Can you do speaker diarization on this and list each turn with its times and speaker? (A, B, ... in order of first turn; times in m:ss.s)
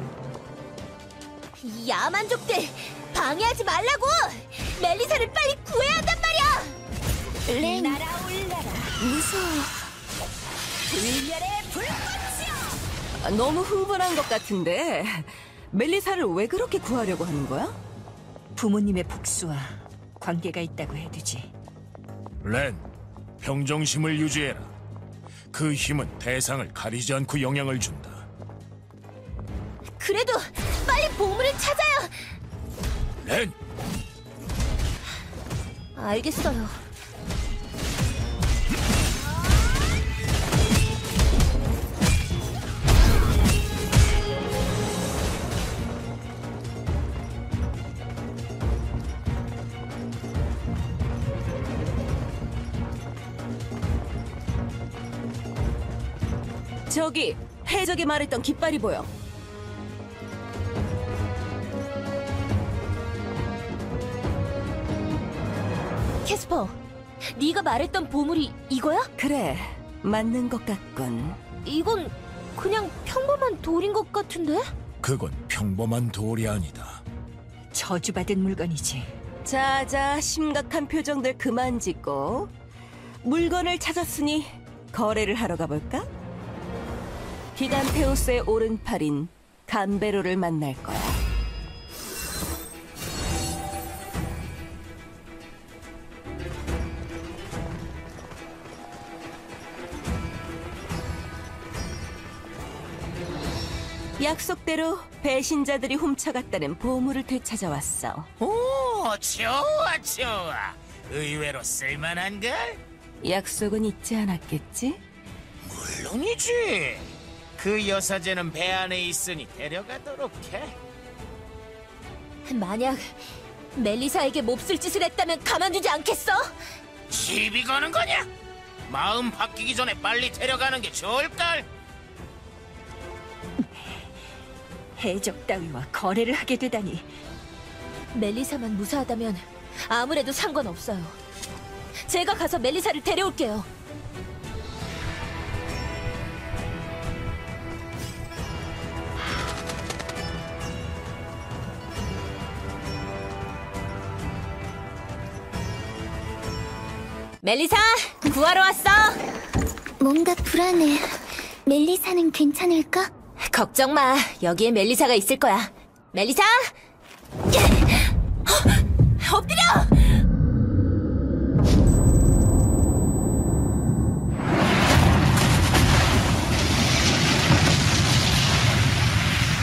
0:01.6-0:06.8 A
0:07.6-0:08.0 B
0:07.6-0:09.0 C
0:09.0-0:09.8 D
0:10.9-0:12.6 C
0:13.2-0:17.8 D
0:18.6-0:21.5 C
0:22.4-0:22.8 E
0:23.4-0:24.7 E
0:25.5-0:28.3 E
0:30.0-0:32.3 A
0:33.2-0:33.6 E
0:36.0-0:36.8 A
0:56.9-0:59.1 D
1:06.2-1:06.8 A
1:07.3-1:09.1 A
1:09.2-1:11.4 D
1:11.6-1:14.7 A
1:15.0-1:17.0 E
1:17.7-1:19.1 C
1:19.4-1:22.5 D
1:23.2-1:26.0 D
1:27.6-1:31.2 D
1:44.2-1:48.3 D
1:48.4-1:52.8 F
1:53.2-1:55.0 D
1:55.6-2:00.7 F
2:02.4-2:06.6 A
2:07.1-2:08.3 F
2:08.9-2:11.6 F
2:13.6-2:14.0 C
2:15.0-2:17.1 C
2:18.1-2:21.2 A
2:22.0-2:23.7 A
2:37.4-2:39.2 A
2:40.0-2:43.1 B
2:43.5-2:46.8 A
2:47.5-2:50.2 A